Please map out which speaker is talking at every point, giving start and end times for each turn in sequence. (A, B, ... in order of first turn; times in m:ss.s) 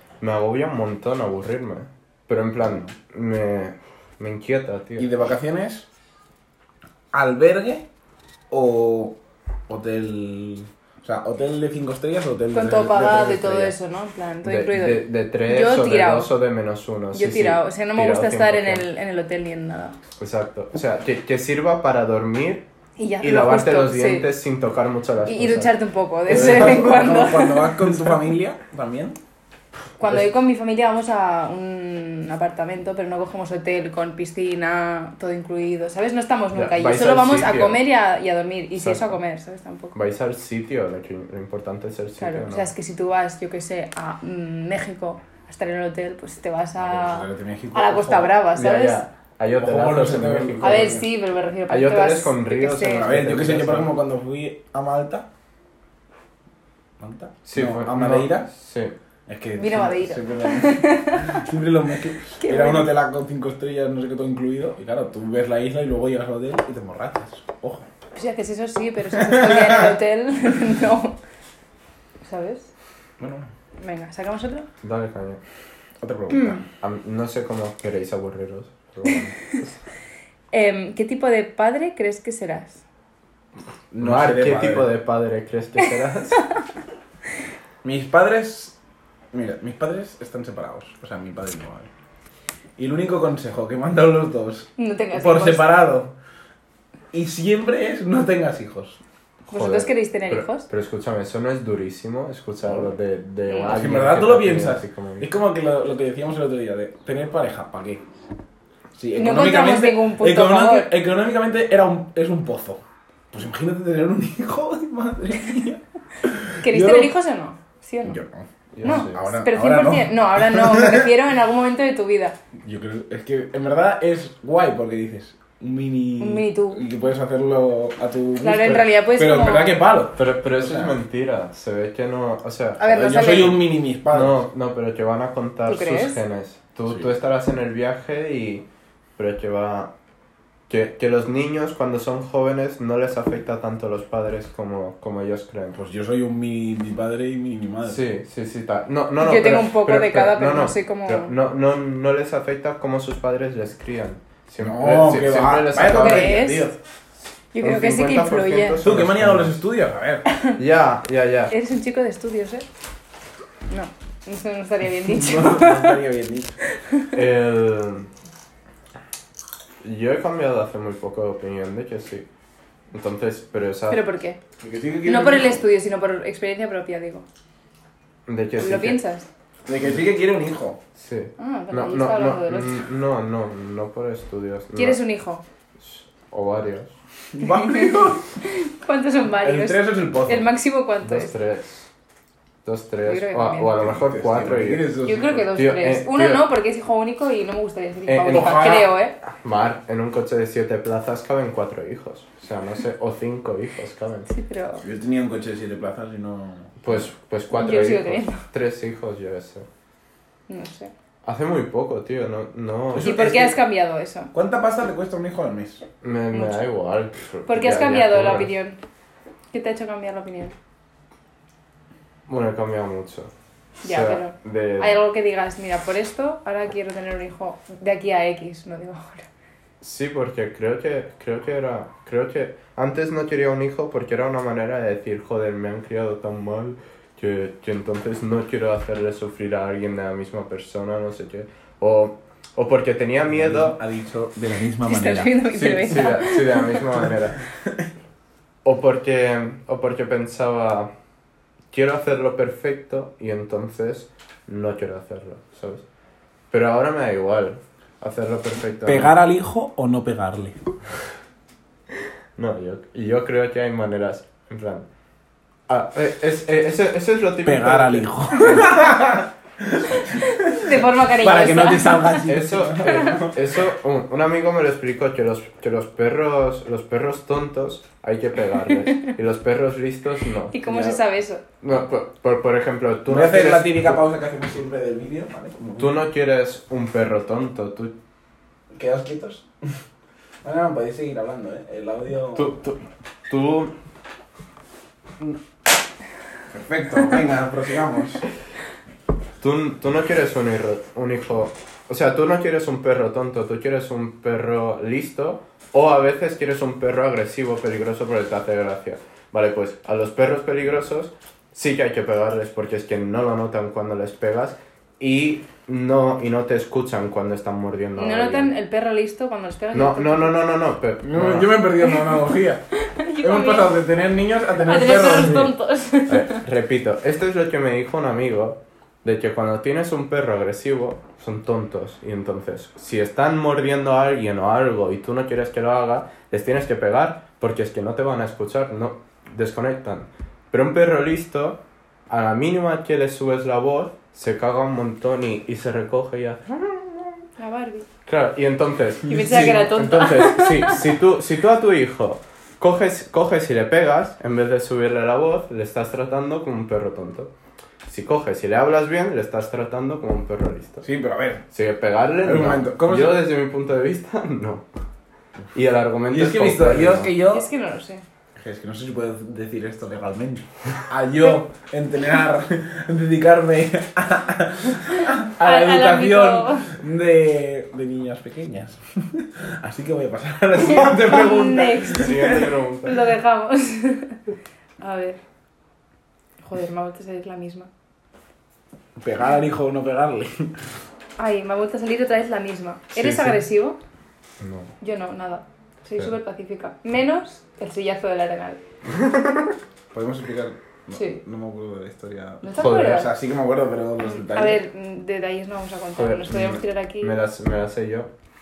0:00.2-0:05.1 A
0:05.0-0:05.9 B
0:07.1-0:07.9 B
0:08.5-0:09.2 B
0:09.7-0:13.8 B
0:12.5-0:16.3 C
0:14.4-0:18.9 A
0:17.1-0:20.0 C
0:20.2-0:22.7 A
0:23.0-0:24.3 C
0:23.2-0:25.7 A
0:25.3-0:27.8 C
0:26.3-0:29.2 B
0:26.3-0:26.6 A
0:30.0-0:40.0 C
0:36.5-0:37.8 A
0:38.8-0:39.2 A
0:39.9-0:42.7 A
0:42.2-0:49.0 C
0:46.8-0:48.4 B
0:48.5-0:51.0 A
0:49.6-0:51.0 B
0:50.6-0:53.1 C
0:51.7-0:53.9 A
0:53.0-0:55.3 B
0:57.0-0:58.5 B
0:57.5-0:59.0 A
0:59.3-1:07.9 B
0:59.6-1:01.5 C
1:02.4-1:02.9 C
1:08.2-1:11.2 C
1:09.3-1:09.8 B
1:12.2-1:12.7 C
1:13.2-1:13.5 B
1:13.8-1:14.7 C
1:14.8-1:15.4 A
1:16.0-1:16.6 B
1:16.3-1:16.6 C
1:16.8-1:19.4 A
1:20.5-1:22.8 C
1:23.9-1:24.9 B
1:24.0-1:26.4 A
1:27.8-1:28.8 B
1:29.3-1:31.9 B
1:32.8-1:36.1 B
1:34.8-1:35.7 C
1:37.1-1:39.0 B
1:39.5-1:40.7 C
1:39.5-1:45.3 A
1:43.5-1:43.8 C
1:43.7-1:48.0 B
1:49.0-1:57.1 B
1:49.2-1:50.9 C
1:56.6-1:58.2 C
1:58.1-2:01.1 B
1:58.8-1:59.2 A
1:58.8-2:02.4 C
2:02.6-2:11.0 B
2:06.2-2:06.8 C
2:08.4-2:09.8 C
2:10.2-2:13.5 A
2:12.8-2:13.6 C
2:12.9-2:14.4 B
2:14.1-2:19.9 A
2:15.7-2:16.2 C
2:20.7-2:25.8 A
2:25.8-2:28.0 B
2:27.8-2:36.4 A
2:29.2-2:31.3 C
2:34.6-2:36.8 B
2:35.9-2:36.7 C
2:37.5-2:38.8 C
2:37.6-2:39.5 A
2:38.8-2:40.2 B
2:40.3-2:40.6 C
2:40.6-2:41.5 A
2:41.5-2:42.7 C
2:43.7-2:46.0 C
2:45.1-2:46.6 B
2:46.8-2:47.1 C
2:47.1-2:48.1 A
2:49.8-2:52.3 A
2:52.9-2:54.0 A
2:53.9-2:54.4 C
2:54.6-2:55.6 B
2:55.0-2:57.2 C
2:58.3-2:59.0 A
2:58.6-2:59.3 C
2:59.7-3:00.8 B
3:01.0-3:05.0 A
3:01.4-3:02.8 C
3:04.8-3:05.4 C
3:05.8-3:06.9 A
3:07.3-3:08.2 B
3:07.4-3:11.3 C
3:09.4-3:10.5 B
3:11.0-3:11.9 A
3:12.6-3:14.8 A
3:13.0-3:13.7 C
3:13.8-3:15.5 B
3:15.0-3:19.2 C
3:15.5-3:16.5 A
3:18.1-3:24.3 A
3:18.3-3:18.9 B
3:24.3-3:24.8 C
3:24.8-3:26.8 B
3:26.8-3:29.7 A
3:27.5-3:28.4 C
3:30.5-3:30.9 C
3:31.2-3:33.2 A
3:32.9-3:33.6 B
3:33.0-3:34.3 C
3:34.3-3:35.8 B
3:36.0-3:38.5 A
3:36.3-3:36.6 C
3:37.5-3:38.8 C
3:39.5-3:40.6 C
3:42.3-3:43.3 A
3:43.8-3:49.3 C
3:43.8-3:45.0 A
3:49.8-4:03.8 A
4:03.3-4:05.4 B
4:04.8-4:06.8 C
4:05.5-4:07.4 A
4:08.6-4:10.9 A
4:11.7-4:15.8 A
4:16.5-4:19.1 A
4:18.9-4:20.6 B
4:22.4-4:24.9 A
4:25.7-4:28.8 A
4:27.4-4:33.4 B
4:30.2-4:32.3 C
4:32.3-4:40.9 A
4:32.8-4:33.2 C
4:40.5-4:41.4 C
4:41.6-4:44.0 A
4:43.1-4:46.0 B
4:45.8-4:48.0 A
4:48.7-4:49.5 B
4:50.4-4:52.5 B
4:52.4-4:53.7 A
4:56.5-4:58.2 B
4:59.4-5:18.5 A
5:18.0-5:20.4 C
5:19.7-5:21.5 A
5:21.0-5:22.6 B
5:21.8-5:22.2 C
5:22.8-5:23.8 C
5:23.2-5:25.5 B
5:24.6-5:26.4 C
5:26.1-5:47.2 A
5:47.4-5:47.9 C
5:48.1-5:57.3 A
5:49.1-5:50.8 C
5:49.2-5:49.6 B
5:57.9-6:00.8 A
6:00.8-6:01.4 B
6:01.5-6:04.6 A
6:02.2-6:03.2 B
6:05.5-6:07.1 A
6:06.1-6:07.5 B
6:07.3-6:08.0 C
6:08.4-6:22.5 B
6:15.4-6:16.7 C
6:20.6-6:24.2 C
6:21.9-6:23.1 A
6:24.8-6:25.2 C
6:26.4-6:27.7 C
6:29.0-6:30.5 B
6:31.2-6:33.8 C
6:33.0-6:33.4 A
6:34.4-6:34.7 A
6:34.8-6:38.6 C
6:39.0-6:39.5 A
6:39.9-6:44.6 B
6:40.9-6:41.2 C
6:42.4-6:43.1 C
6:42.6-6:43.0 A
6:44.1-6:47.1 C
6:46.0-6:48.1 A